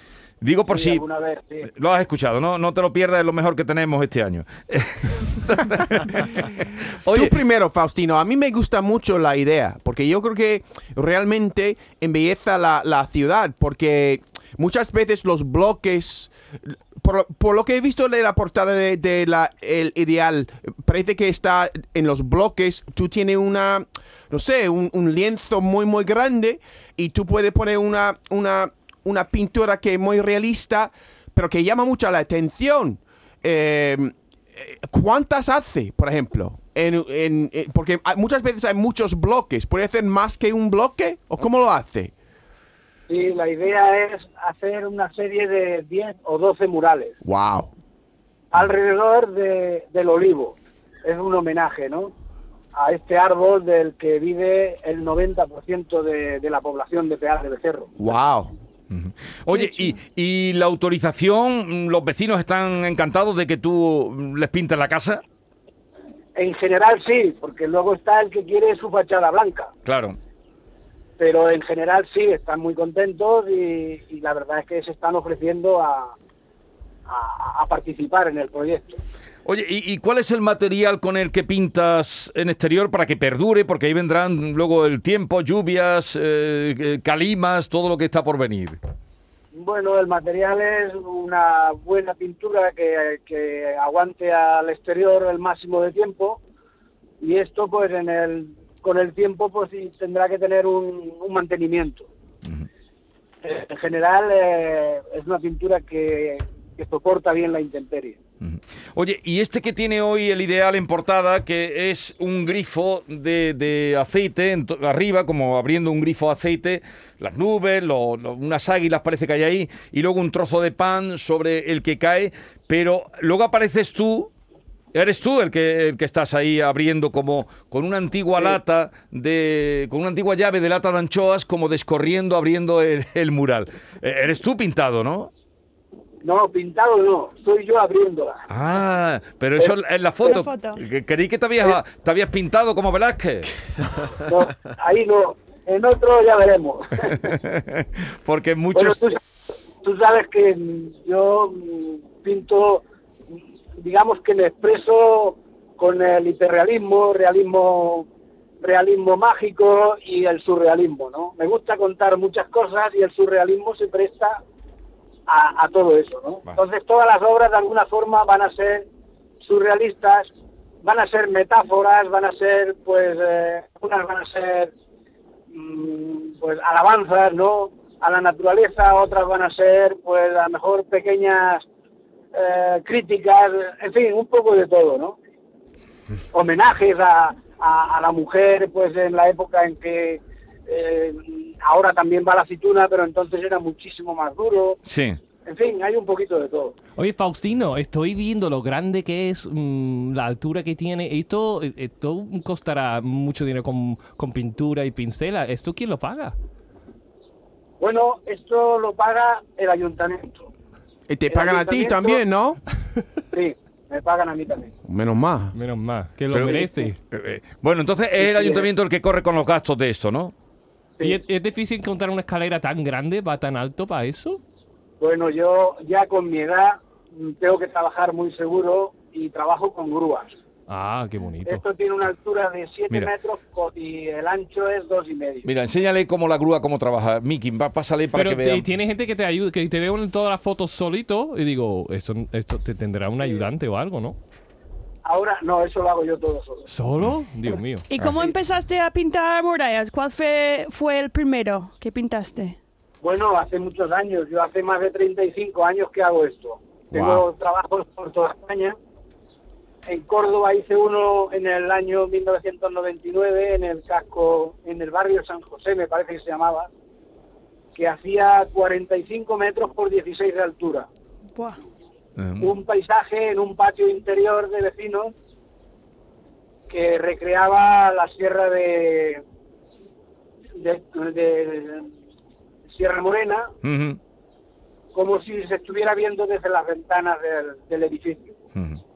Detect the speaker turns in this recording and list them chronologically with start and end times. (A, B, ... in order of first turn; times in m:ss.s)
0:00.4-0:01.0 A
0:00.7-0:01.7 B
0:01.6-0:07.3 A
0:07.1-0:42.1 C
0:43.1-0:47.2 B
0:47.2-0:47.7 C
0:48.5-0:52.1 B
0:52.7-0:57.9 B
0:58.0-0:58.5 C
0:58.9-1:05.2 A
0:59.5-0:59.9 D
1:06.4-1:09.7 B
1:09.8-1:10.2 A
1:11.2-1:16.1 B
1:17.0-1:19.0 B
1:19.4-1:28.8 A
1:29.5-1:36.4 B
1:37.2-1:42.1 B
1:43.4-1:48.2 B
1:48.4-2:04.3 A
2:04.9-2:15.3 A
2:16.2-2:18.4 B
2:18.5-2:23.5 A
2:20.2-2:20.8 E
2:24.2-2:27.4 B
2:27.2-2:29.0 A
2:28.7-2:29.2 B
2:29.8-2:32.8 B
2:33.8-2:38.1 B
2:38.6-2:44.4 B
2:45.3-2:48.9 B
2:49.4-2:50.3 B
2:50.8-2:54.7 B
2:55.5-3:01.6 B
3:02.3-3:05.2 B
3:06.3-3:14.8 B
3:14.8-3:15.2 A
3:15.4-3:16.7 B
3:17.0-3:26.4 D
3:27.8-3:30.5 B
3:31.1-3:32.6 C
3:31.3-3:32.2 B
3:33.3-3:34.7 B
3:34.8-3:35.5 C
3:35.5-3:37.0 D
3:36.3-3:40.3 A
3:38.2-3:38.7 B
3:41.0-3:44.4 D
3:45.0-3:50.4 B
3:50.7-3:51.6 D
3:51.4-3:55.5 B
3:55.4-3:58.7 A
3:58.1-4:04.2 D
4:05.0-4:06.7 B
4:06.6-4:07.8 D
4:07.9-4:12.6 E
4:13.0-4:18.8 B
4:16.9-4:17.2 A
4:19.8-4:26.7 B
4:27.7-4:30.9 B
4:31.3-4:31.6 E
4:32.2-4:32.5 A
4:32.4-4:35.1 B
4:36.7-4:39.2 B
4:40.5-4:41.9 B
4:42.7-4:43.5 B
4:43.6-4:44.0 A
4:44.9-4:48.3 B
4:48.5-4:48.8 A